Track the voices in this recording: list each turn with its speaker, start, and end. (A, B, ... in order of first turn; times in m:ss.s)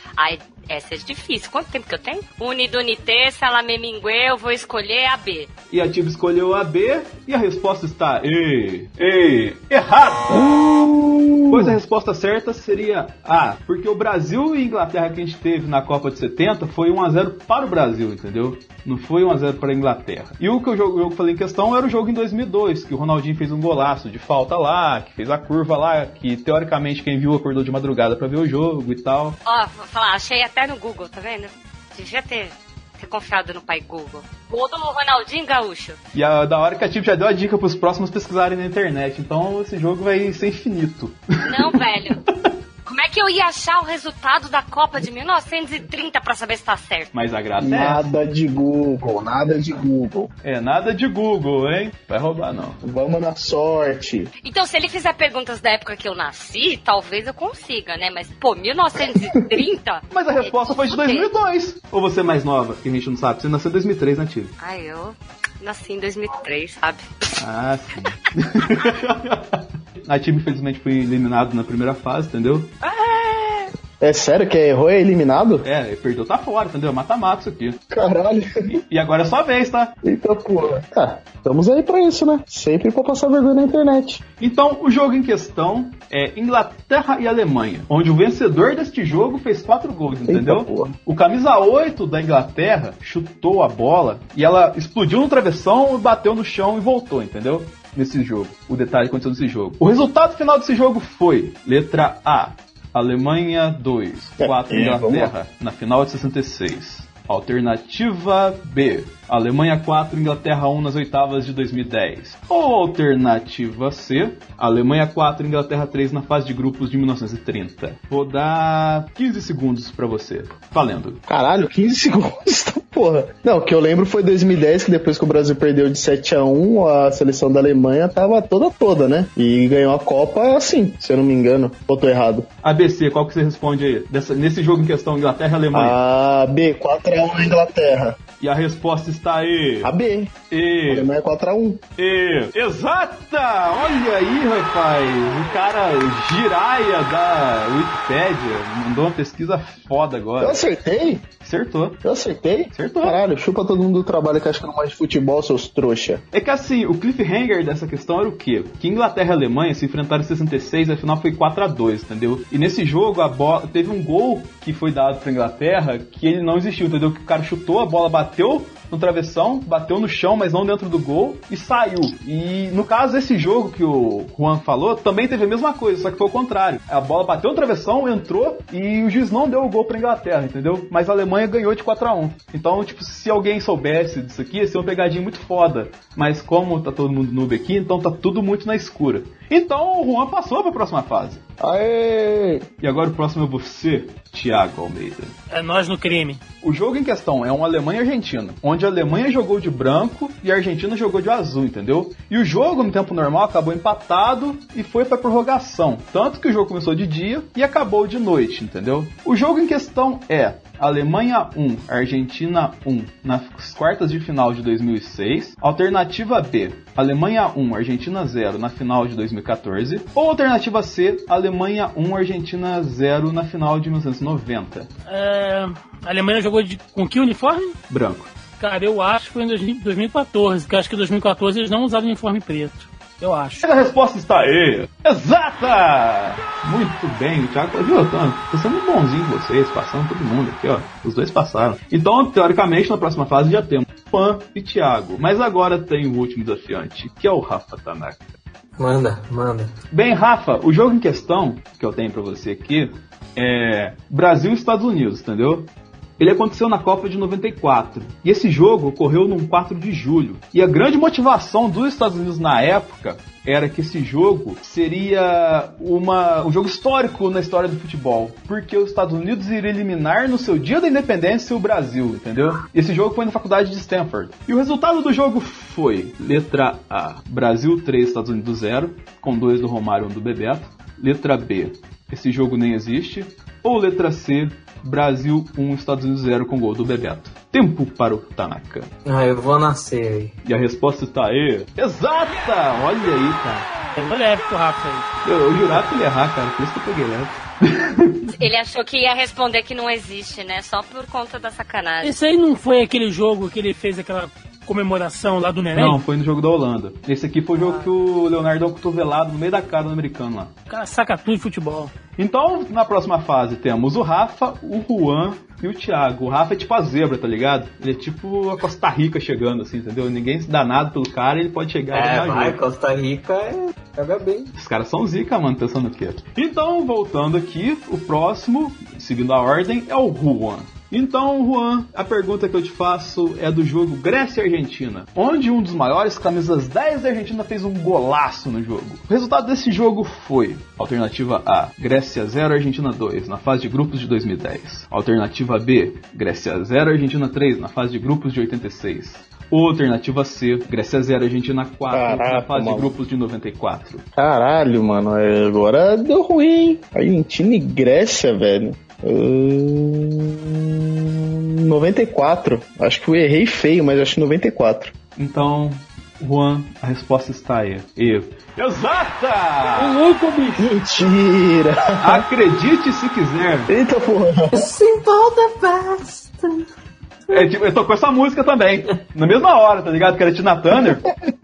0:00.2-0:05.5 A
0:05.7-0:10.5 B
0:10.3-0:11.8 C
0:11.5-0:29.4 B
0:29.4-0:36.0 A
0:36.1-0:41.8 B
0:41.4-0:42.2 A
0:42.8-0:47.1 A
0:47.1-0:48.1 B
0:47.6-0:50.3 C
0:50.4-0:52.8 B
0:52.8-0:54.3 C
0:54.4-1:01.3 A
1:00.1-1:04.5 B
1:04.6-1:07.1 A
1:07.4-1:12.7 B
1:12.8-1:13.7 A
1:14.0-1:15.6 C
1:15.6-1:17.8 B
1:17.9-1:18.8 C
1:18.9-1:20.0 B
1:20.0-1:24.2 C
1:24.4-2:01.2 B
1:30.2-1:30.9 C
1:44.4-1:45.3 C
2:01.3-2:12.5 C
2:12.6-2:16.0 B
2:15.7-2:18.2 C
2:18.4-2:19.9 B
2:19.8-2:20.3 C
2:20.5-2:21.1 B
2:20.9-2:21.8 C
2:22.0-2:30.6 B
2:30.4-2:31.2 C
2:31.4-2:32.0 B
2:32.0-2:36.2 C
2:32.7-2:33.2 B
2:36.3-3:11.4 B
3:11.6-3:12.6 C
3:12.8-3:15.3 B
3:15.5-3:16.4 D
3:16.6-3:44.9 B
3:45.1-3:47.8 D
3:47.9-3:48.3 B
3:48.6-3:53.6 D
3:53.6-4:08.2 B
4:08.8-4:09.7 E
4:09.9-4:15.7 B
4:16.2-4:48.9 B
4:49.0-4:50.3 E
4:50.4-4:53.6 B
4:54.0-4:55.1 D
4:55.2-4:58.3 B
4:58.3-5:02.1 A
5:02.0-5:06.0 D
5:05.7-5:10.5 B
5:07.6-5:07.8 D
5:10.7-5:11.9 D
5:12.2-5:22.6 B
5:21.9-5:24.5 E
5:24.5-5:54.0 B
5:51.9-5:52.9 C
5:54.2-6:04.9 C
6:05.2-6:10.0 B
6:09.7-6:10.7 D
6:10.6-6:12.2 C
6:12.0-6:13.7 B
6:13.7-6:14.7 C
6:14.5-6:16.6 E
6:17.3-6:21.0 B
6:20.8-6:21.1 C